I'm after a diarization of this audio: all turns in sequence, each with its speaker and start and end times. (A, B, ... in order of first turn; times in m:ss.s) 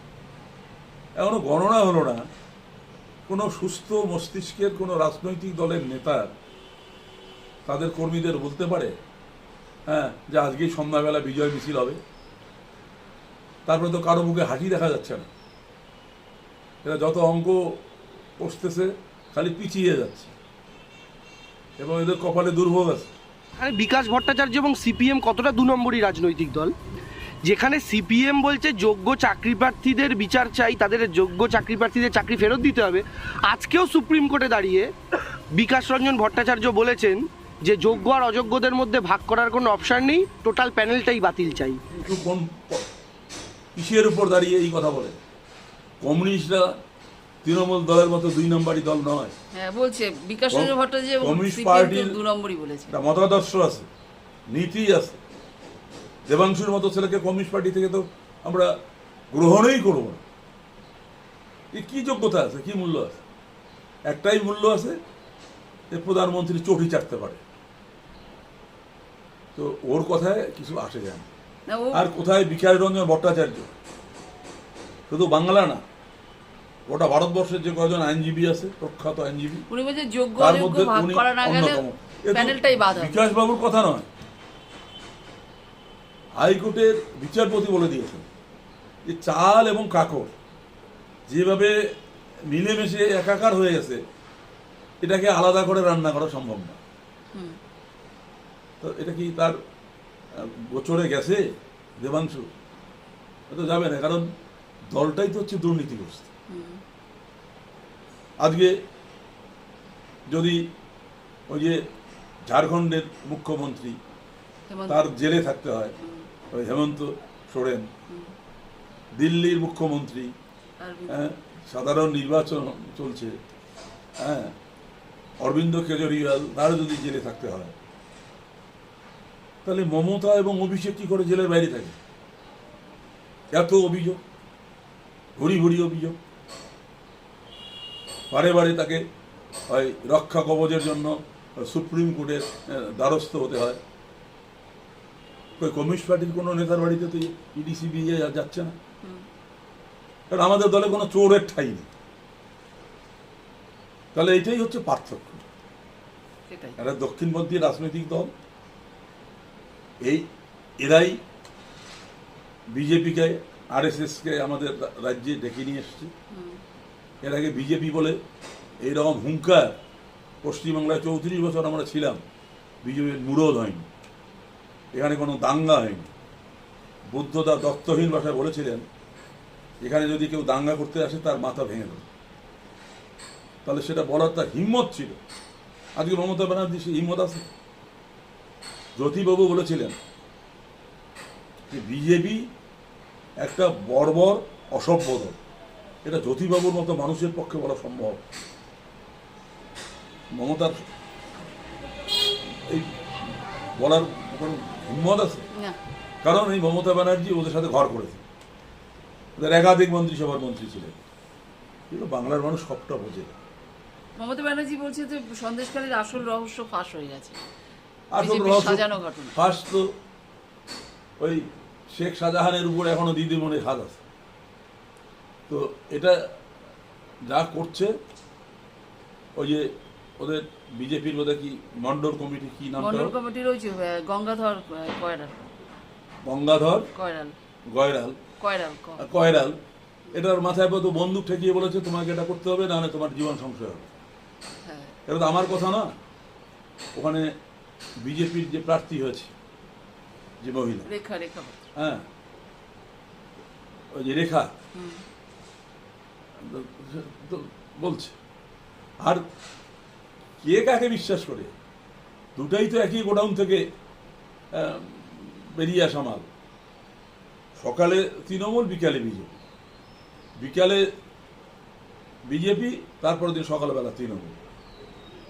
0:01.2-0:02.2 A
0:03.3-0:06.3 A
0:07.6-0:08.9 A
0:09.9-0:12.0 A
0:13.6-0:15.3 A
0:16.8-0:17.8 A
0:18.4-0:20.3 A
0:21.8-0:23.1 A
0:23.6-0:26.7 B
0:27.4-0:34.9 B
0:35.5-0:41.8 B
0:41.9-0:42.8 A
0:43.7-0:45.2 A
0:46.0-0:46.7 A
0:47.4-0:49.3 A
0:49.5-0:52.9 C
0:50.5-0:52.2 A
0:52.9-0:53.9 A
0:54.5-0:55.2 A
0:56.3-0:58.7 A
0:59.3-1:00.2 A
1:01.7-1:03.2 A
1:04.1-1:05.0 A
1:05.9-1:07.4 A
1:09.6-1:11.3 A
1:11.7-1:12.0 C
1:11.9-1:13.7 A
1:15.1-1:15.8 A
1:16.9-1:19.6 A
1:19.7-1:23.2 C
1:20.4-1:24.1 A
1:26.4-1:28.2 A
1:29.0-1:30.3 A
1:31.3-1:31.7 A
1:32.5-1:34.0 A
1:35.0-1:36.8 A
1:38.8-1:39.6 A
1:40.3-1:41.4 A
1:42.0-1:42.5 A
1:43.5-1:44.2 A
1:44.9-1:46.3 A
1:46.5-1:46.8 C
1:48.4-1:48.8 A
1:50.3-1:50.6 A
1:51.5-1:51.8 A
1:52.4-1:54.0 A
1:54.7-1:55.0 C
1:54.9-1:55.9 A
1:56.5-1:57.9 A
1:59.2-2:00.3 A
2:00.8-2:01.3 C
2:01.1-2:03.4 A
2:04.2-2:04.5 A
2:05.4-2:07.7 A
2:09.6-2:12.0 A
2:13.5-2:14.2 A
2:15.4-2:16.2 A
2:18.3-2:19.0 A
2:19.7-2:23.8 A
2:25.6-2:28.8 A
2:30.3-2:31.9 A
2:34.1-2:35.4 A
2:36.5-2:36.8 C
2:36.8-2:38.3 A
2:40.8-2:41.2 A
2:42.7-2:46.1 A
2:46.3-2:46.6 C
2:47.2-2:48.2 A
2:48.8-2:49.8 A
2:50.4-2:52.2 A
2:52.8-2:53.8 A
2:54.9-2:56.1 A
2:57.1-2:58.8 A
2:59.8-3:02.0 A
3:03.6-3:05.2 A
3:06.0-3:07.5 A
3:09.0-3:10.0 A
3:11.7-3:12.5 A
3:13.4-3:15.4 A
3:16.0-3:18.2 A
3:20.3-3:20.8 A
3:22.6-3:25.4 A
3:26.2-3:28.2 A
3:29.4-3:31.0 A
3:31.9-3:33.4 A
3:34.2-3:37.4 C
3:38.1-3:39.9 A
3:38.2-3:39.3 C
3:41.2-3:44.0 A
3:45.5-3:46.2 A
3:47.2-3:47.9 A
3:49.3-3:53.1 A
3:52.8-3:55.5 C
3:56.2-3:56.9 A
3:56.9-3:57.3 C
3:57.7-3:58.2 A
3:58.4-3:59.0 C
3:59.0-3:59.6 A
4:00.1-4:03.8 A
4:04.6-4:04.9 C
4:05.1-4:05.9 A
4:06.9-4:07.3 A
4:08.0-4:09.3 A
4:10.4-4:10.9 A
4:10.8-4:11.6 C
4:11.8-4:12.0 A
4:13.9-4:14.5 A
4:14.7-4:15.0 C
4:16.4-4:18.1 A
4:20.4-4:21.5 A
4:22.4-4:23.6 A
4:24.5-4:26.3 A
4:27.6-4:29.3 A
4:30.4-4:30.8 A
4:32.3-4:34.4 A